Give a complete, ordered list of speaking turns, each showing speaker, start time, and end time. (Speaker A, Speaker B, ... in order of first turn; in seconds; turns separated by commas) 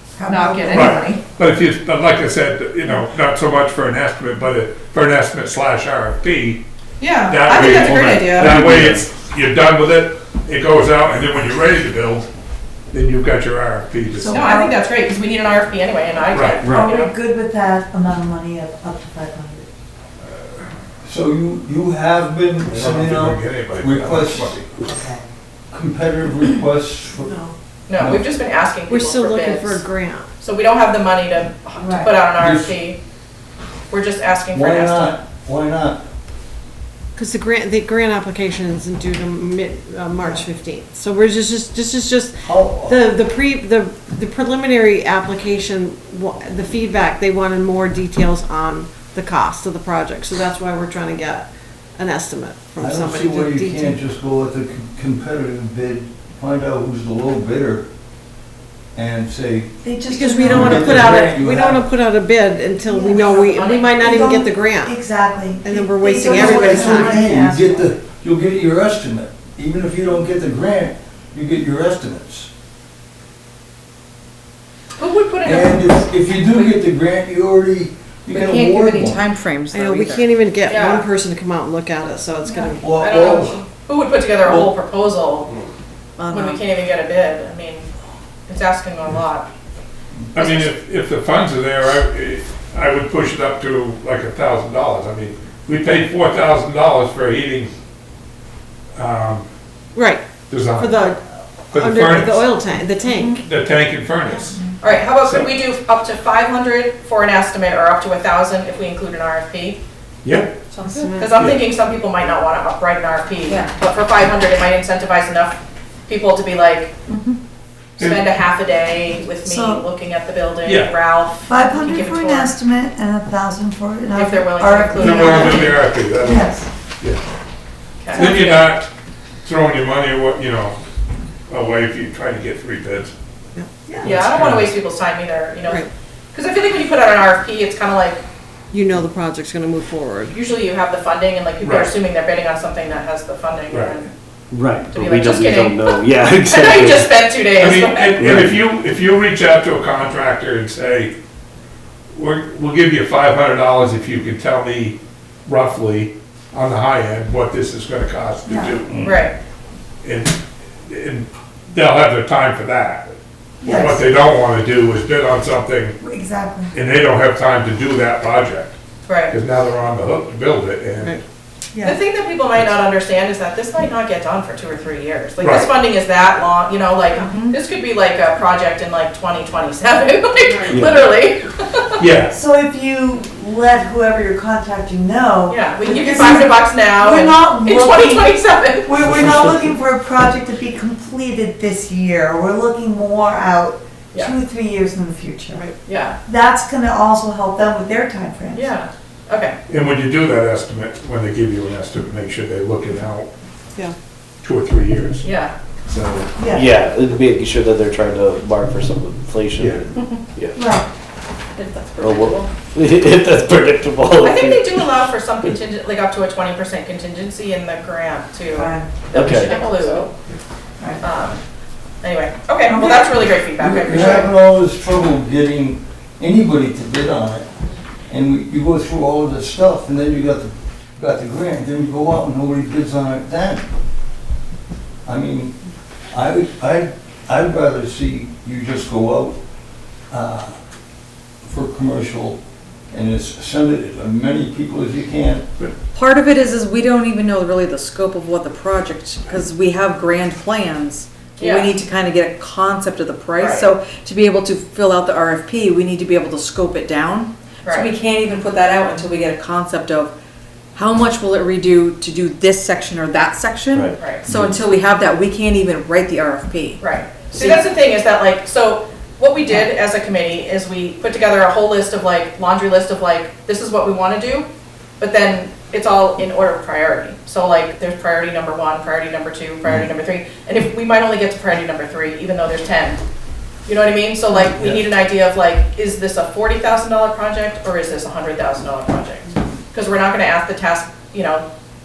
Speaker A: 0.2-1.1, Speaker B: 0.3-1.2, Speaker C: 0.7-6.6, Speaker B: 7.0-8.6, Speaker C: 7.3-12.3, Speaker D: 7.8-9.1, Speaker C: 12.9-14.5, Speaker A: 14.1-14.7, Speaker B: 14.3-17.1, Speaker C: 16.3-16.8, Speaker D: 16.6-16.9, Speaker A: 16.7-19.7, Speaker C: 20.2-20.7, Speaker E: 21.0-24.7, Speaker C: 22.7-24.7, Speaker A: 24.8-25.2, Speaker E: 25.7-27.4, Speaker F: 27.2-27.5, Speaker B: 27.9-29.8, Speaker E: 28.0-28.2, Speaker F: 28.9-30.3, Speaker B: 30.4-33.0, Speaker A: 31.8-32.1, Speaker E: 32.4-32.8, Speaker B: 33.9-35.2, Speaker E: 34.5-36.0, Speaker F: 37.2-54.0, Speaker E: 42.4-43.1, Speaker E: 52.8-57.9, Speaker E: 59.0-59.8, Speaker A: 59.8-61.0, Speaker F: 60.1-65.0, Speaker E: 60.4-61.9, Speaker A: 62.8-67.9, Speaker B: 63.3-64.3, Speaker F: 65.6-67.2, Speaker E: 66.3-72.5, Speaker B: 75.0-76.0, Speaker E: 75.4-79.2, Speaker G: 78.3-80.3, Speaker F: 79.7-83.0, Speaker B: 80.7-81.1, Speaker E: 82.8-83.6, Speaker B: 82.9-85.5, Speaker E: 84.5-84.7, Speaker G: 86.2-86.6, Speaker B: 86.3-87.9, Speaker B: 88.5-89.5, Speaker C: 90.3-97.7, Speaker B: 90.4-90.7, Speaker C: 99.0-99.5, Speaker F: 99.9-100.2, Speaker C: 100.5-101.1, Speaker F: 100.8-103.4, Speaker C: 101.7-102.5, Speaker G: 103.1-103.4, Speaker C: 103.3-104.6, Speaker B: 104.8-109.8, Speaker C: 105.2-105.5, Speaker C: 110.2-110.6, Speaker G: 110.7-111.2, Speaker F: 111.0-111.3, Speaker B: 111.1-116.9, Speaker C: 111.4-111.6, Speaker G: 113.5-113.7, Speaker G: 117.1-117.4, Speaker C: 118.0-118.3, Speaker B: 118.0-122.6, Speaker A: 119.4-119.8, Speaker C: 120.7-121.0, Speaker A: 121.4-126.7, Speaker B: 124.2-125.8, Speaker C: 125.0-127.2, Speaker B: 128.0-128.7, Speaker A: 128.1-128.5, Speaker C: 128.1-128.9, Speaker C: 129.4-130.8, Speaker C: 131.5-133.1, Speaker A: 133.9-134.2, Speaker C: 134.0-134.7, Speaker B: 134.0-138.2, Speaker F: 138.7-140.3, Speaker B: 140.3-144.1, Speaker C: 141.6-141.9, Speaker C: 143.7-144.0, Speaker D: 144.5-147.3, Speaker B: 144.9-148.4, Speaker C: 147.6-151.1, Speaker D: 148.2-148.6, Speaker C: 152.2-159.2, Speaker A: 158.5-158.7, Speaker B: 159.0-159.3, Speaker C: 160.0-165.9, Speaker A: 163.6-164.0, Speaker A: 166.0-166.8, Speaker C: 166.7-168.8, Speaker B: 169.1-169.3, Speaker C: 169.3-171.2, Speaker B: 171.8-182.0, Speaker C: 175.4-175.7, Speaker G: 177.1-177.6, Speaker D: 180.7-181.1, Speaker C: 182.0-182.3, Speaker A: 182.3-195.7, Speaker B: 185.5-189.5, Speaker D: 189.1-189.7, Speaker B: 195.8-196.2, Speaker A: 196.2-198.7, Speaker B: 198.5-199.6, Speaker C: 199.7-203.3, Speaker C: 204.4-205.3, Speaker B: 205.2-205.6, Speaker C: 205.8-206.3, Speaker A: 206.4-206.7, Speaker D: 206.5-210.7, Speaker C: 209.6-209.9, Speaker B: 210.0-210.2, Speaker A: 210.6-210.9, Speaker B: 211.6-212.5, Speaker D: 212.0-215.5, Speaker B: 214.2-220.1, Speaker A: 218.5-218.9, Speaker D: 219.1-220.1, Speaker G: 219.5-219.8, Speaker B: 221.0-221.4, Speaker B: 222.0-224.3, Speaker A: 222.7-223.1, Speaker E: 223.6-227.5, Speaker E: 228.1-233.6, Speaker E: 235.1-235.6, Speaker E: 236.1-239.4, Speaker E: 240.1-240.6, Speaker E: 241.4-242.4, Speaker E: 242.9-245.4, Speaker G: 245.9-260.1, Speaker B: 251.4-251.7, Speaker B: 253.4-253.7, Speaker B: 257.6-257.9, Speaker G: 260.8-266.8, Speaker D: 263.7-264.6, Speaker B: 264.0-264.3, Speaker B: 266.8-274.5, Speaker G: 267.3-267.7, Speaker B: 275.0-283.0, Speaker B: 283.7-291.5